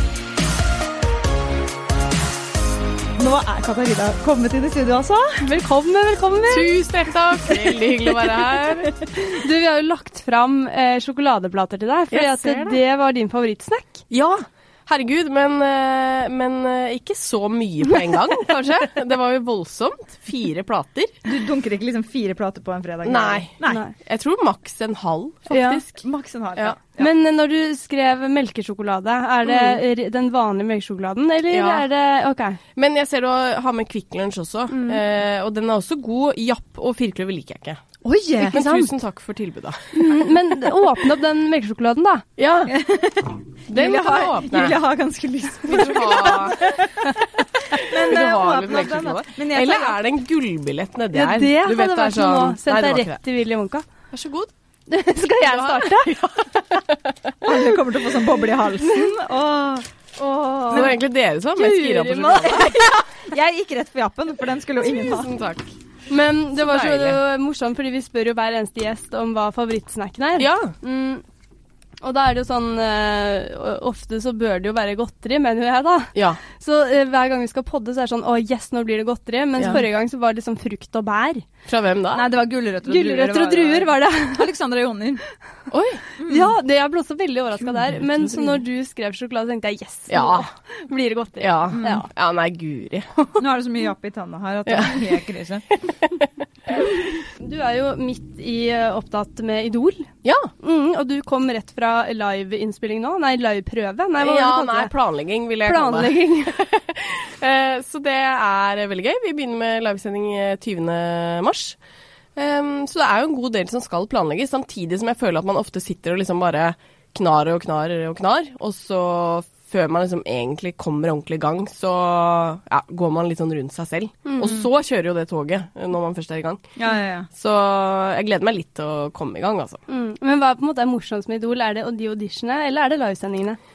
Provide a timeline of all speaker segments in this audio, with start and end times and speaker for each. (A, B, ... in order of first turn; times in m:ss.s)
0:03.2-0:05.4 A
0:05.4-0:06.7 B
0:06.5-0:09.0 C
0:09.2-0:14.0 B
0:12.1-0:12.8 C
0:14.1-0:21.1 C
0:21.2-0:23.8 A
0:23.0-0:26.0 C
0:23.6-0:23.9 B
0:25.5-0:25.8 B
0:26.0-0:27.1 A
0:27.0-0:32.6 B
0:29.4-0:29.8 C
0:31.5-0:31.8 C
0:32.7-0:37.8 C
0:34.7-0:35.0 B
0:38.0-0:38.9 A
0:38.4-0:40.1 C
0:39.9-0:42.2 B
0:42.4-0:42.7 C
0:42.7-0:50.0 A
0:43.7-0:44.8 C
0:45.6-0:46.7 C
0:47.8-0:53.2 C
0:51.1-0:53.8 B
0:54.1-0:54.5 C
0:54.9-0:56.2 B
0:55.2-0:57.5 C
0:57.4-0:59.8 A
0:58.9-0:59.1 B
1:00.2-1:01.0 B
1:00.7-1:00.9 A
1:00.7-1:02.7 C
1:01.6-1:03.0 B
1:03.2-1:05.3 A
1:04.8-1:05.7 C
1:06.1-1:11.2 B
1:06.6-1:07.2 C
1:10.4-1:10.7 C
1:12.0-1:21.4 B
1:16.1-1:16.4 C
1:21.7-1:22.2 C
1:22.1-1:25.2 A
1:22.9-1:24.5 B
1:25.7-1:26.0 C
1:26.2-1:26.5 A
1:26.3-1:32.1 B
1:30.1-1:30.5 C
1:31.4-1:33.4 C
1:31.7-1:32.0 A
1:33.4-1:35.6 A
1:34.7-1:35.2 C
1:35.8-1:36.9 C
1:37.4-1:40.1 B
1:40.2-1:40.5 C
1:40.6-1:44.9 B
1:44.2-1:51.8 C
1:45.6-1:46.6 B
1:52.4-2:06.6 C
2:04.2-2:04.5 B
2:06.8-2:07.3 A
2:07.3-2:09.8 C
2:09.9-2:13.6 B